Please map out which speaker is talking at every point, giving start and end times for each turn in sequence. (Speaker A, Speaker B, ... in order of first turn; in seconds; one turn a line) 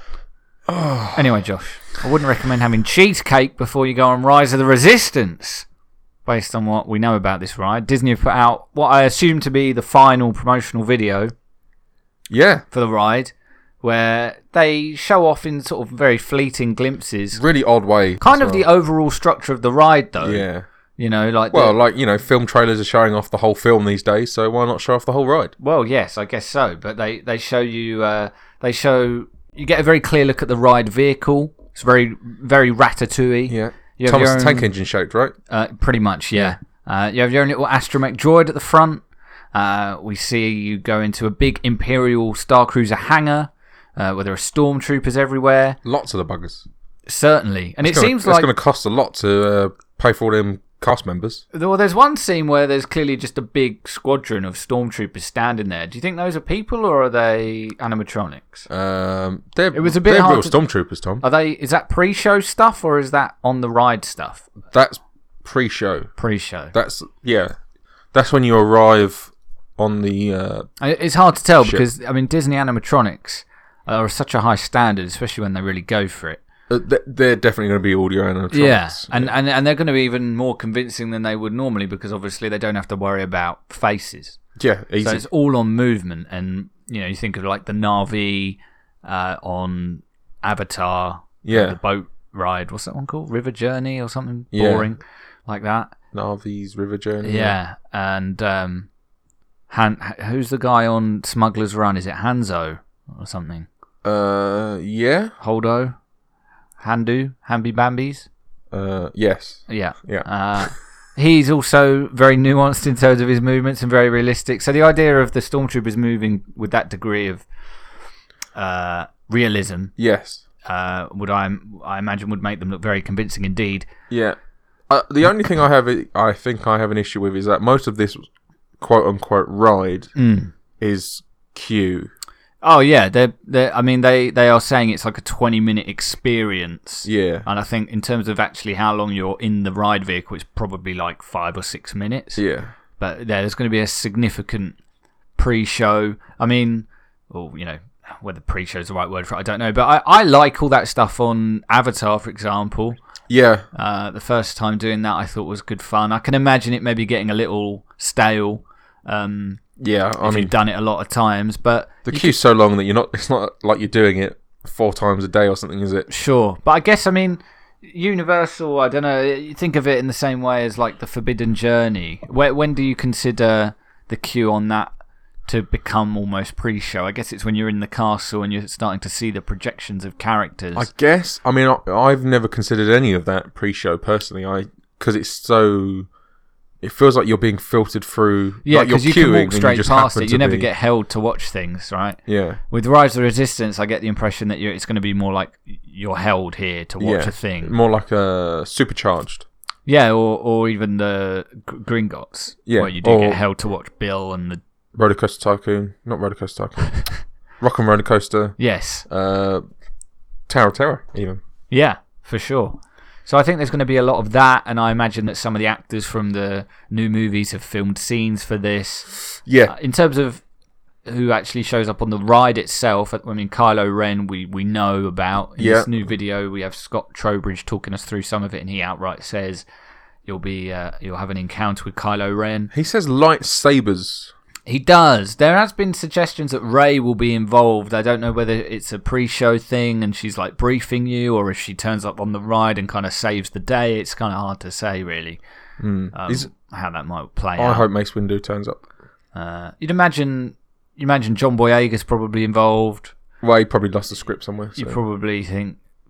Speaker A: 0.7-1.2
Speaker B: 1.1-5.7
Speaker B: 6.2-11.3
Speaker A: 12.3-12.6
Speaker B: 12.7-17.4
Speaker A: 17.3-18.6
Speaker B: 18.2-21.8
Speaker A: 20.2-20.6
Speaker A: 21.5-25.5
Speaker B: 25.6-34.7
Speaker A: 33.5-35.3
Speaker B: 35.5-39.0
Speaker B: 39.5-45.8
Speaker A: 45.8-46.6
Speaker B: 47.0-48.5
Speaker A: 47.8-51.4
Speaker B: 51.5-58.7
Speaker A: 58.7-61.2
Speaker B: 59.7-60.6
Speaker B: 61.2-64.5
Speaker A: 64.7-66.1
Speaker B: 66.2-66.7
Speaker A: 66.7-67.5
Speaker A: 68.1-70.7
Speaker B: 70.8-76.4
Speaker A: 76.7-79.3
Speaker B: 78.5-84.4
Speaker A: 84.6-85.2
Speaker B: 85.0-95.9
Speaker A: 91.4-91.8
Speaker A: 94.5-94.9
Speaker A: 96.1-97.5
Speaker B: 97.2-98.9
Speaker B: 99.7-103.7
Speaker A: 104.0-105.3
Speaker B: 105.4-105.9
Speaker B: 106.8-108.3
Speaker A: 108.7-110.7
Speaker B: 109.7-117.5
Speaker B: 118.5-119.9
Speaker A: 120.0-120.4
Speaker B: 120.7-123.9
Speaker A: 124.1-124.4
Speaker A: 124.9-128.2
Speaker A: 128.8-130.1
Speaker B: 130.2-130.5
Speaker A: 130.8-132.1
Speaker B: 132.6-142.4
Speaker A: 137.0-137.4
Speaker A: 142.4-142.7
Speaker B: 143.0-144.8
Speaker B: 145.4-153.0
Speaker A: 153.3-153.6
Speaker B: 153.7-159.6
Speaker A: 159.8-160.5
Speaker B: 160.2-162.3
Speaker A: 162.1-166.1
Speaker B: 166.1-174.9
Speaker B: 175.5-180.9
Speaker A: 180.7-186.1
Speaker A: 186.8-190.7
Speaker B: 188.6-197.7
Speaker A: 192.3-192.6
Speaker A: 197.0-199.4
Speaker B: 199.8-204.6
Speaker A: 202.7-203.4
Speaker A: 204.9-207.0
Speaker A: 207.6-209.6
Speaker B: 208.6-209.0
Speaker A: 210.5-211.4
Speaker B: 211.7-219.1
Speaker A: 219.4-219.7
Speaker B: 219.7-220.4
Speaker B: 221.1-229.6
Speaker A: 225.6-225.9
Speaker B: 230.2-232.7
Speaker A: 232.7-234.3
Speaker B: 234.7-245.4
Speaker A: 245.8-246.5
Speaker B: 246.1-247.9
Speaker A: 247.6-248.8
Speaker B: 249.3-253.1
Speaker A: 253.4-255.0
Speaker B: 254.8-255.8